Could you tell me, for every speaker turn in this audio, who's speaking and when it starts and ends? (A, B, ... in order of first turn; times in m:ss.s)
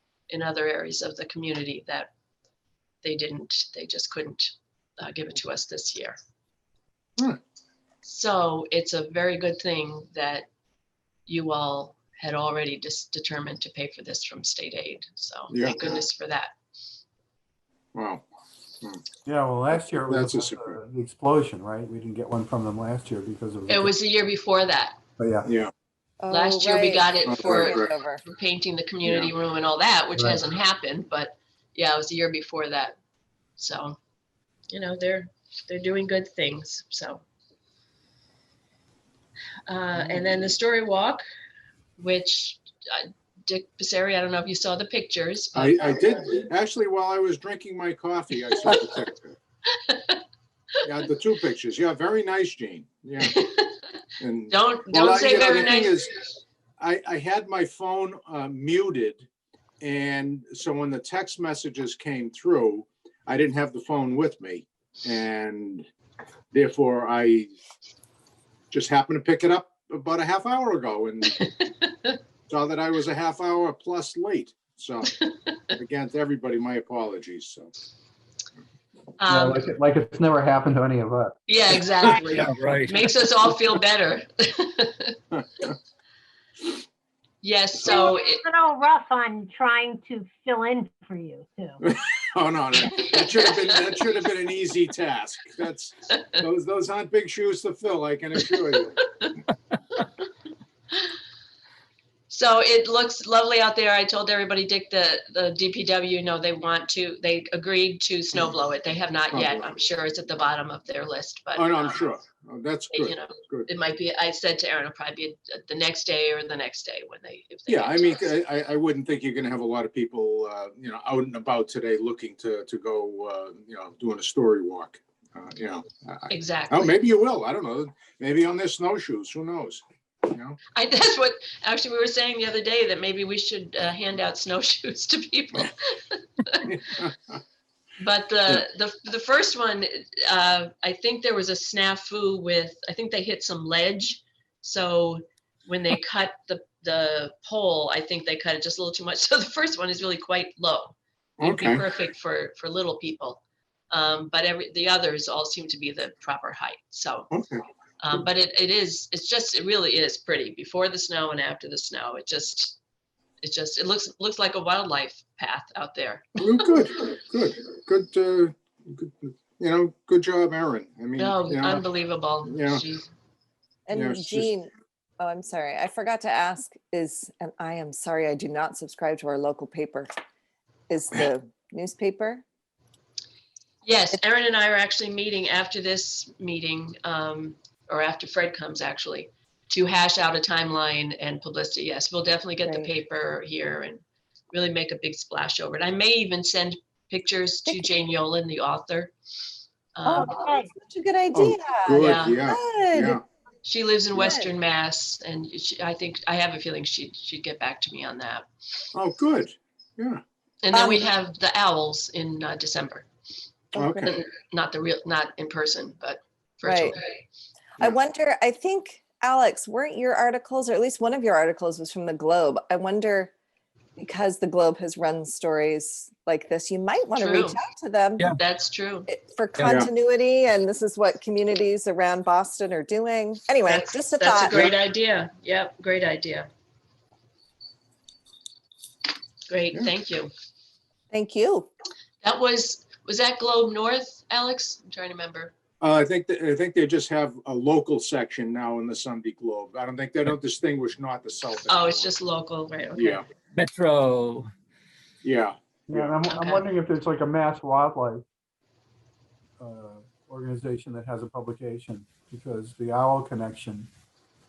0:00.3-0:02.1 A
0:03.0-0:06.2 A
0:08.0-0:10.5 A
0:11.3-0:16.5 A
0:15.5-0:15.8 B
0:18.0-0:18.2 B
0:19.2-0:23.9 C
0:19.9-0:20.8 B
0:23.7-0:25.0 A
0:25.2-0:25.5 C
0:25.4-0:25.7 B
0:26.2-0:28.2 D
0:26.3-0:33.0 A
0:27.2-0:27.9 B
0:29.0-0:29.3 B
0:33.6-0:34.0 A
0:34.7-0:37.2 A
0:39.7-0:41.2 A
0:40.0-0:40.4 B
0:42.0-0:45.9 A
0:45.6-0:49.4 B
0:49.7-0:50.2 A
0:50.8-0:53.4 B
0:53.2-0:53.8 A
0:54.2-0:56.3 B
0:54.5-0:56.0 A
0:56.8-0:59.2 B
0:59.8-1:05.8 B
1:06.5-1:07.5 B
1:08.7-1:11.5 B
1:11.4-1:12.2 A
1:12.5-1:15.2 B
1:15.7-1:17.7 B
1:19.2-1:19.6 A
1:19.3-1:21.4 C
1:21.5-1:25.2 A
1:22.1-1:23.5 E
1:27.4-1:28.4 A
1:27.8-1:31.8 F
1:31.8-1:39.0 B
1:42.3-1:52.0 A
1:49.3-1:49.7 B
1:51.6-1:53.7 B
1:52.9-1:58.2 A
1:57.7-2:10.6 B
2:06.3-2:07.0 A
2:10.7-2:17.0 A
2:16.8-2:17.1 B
2:18.0-2:37.3 A
2:31.4-2:31.8 B
2:37.3-2:37.6 B
2:38.0-2:42.8 A
2:43.4-2:46.5 A
2:46.4-2:51.8 B
2:51.2-2:53.1 A
2:52.5-2:52.8 B
2:53.9-3:00.1 D
2:53.9-2:54.5 B
3:00.9-3:02.4 D
3:03.8-3:19.1 A
3:12.6-3:12.9 D
3:20.0-3:20.4 A
3:20.0-3:23.2 D
3:21.3-3:23.2 B
3:22.0-3:22.4 A
3:23.6-3:28.5 A
3:24.2-3:24.5 D
3:28.9-3:30.2 B
3:30.6-3:33.1 A
3:30.7-3:31.1 D
3:33.7-3:34.2 B
3:33.8-3:34.1 D
3:34.0-3:37.1 A
3:36.6-3:37.0 D
3:37.8-3:43.3 D
3:44.0-3:48.3 D
3:47.2-3:47.6 A
3:48.3-3:49.1 A
3:49.1-3:54.6 D
3:49.6-3:49.8 E
3:53.7-3:56.5 A
3:54.3-3:54.7 B
3:59.5-4:00.3 A
4:01.1-4:01.7 D
4:02.2-4:05.5 A
4:05.8-4:12.2 B
4:11.7-4:13.2 A
4:13.0-4:13.2 B
4:13.6-4:14.5 E
4:15.2-4:16.2 B
4:15.9-4:18.2 C
4:16.3-4:16.6 A
4:19.6-4:23.9 C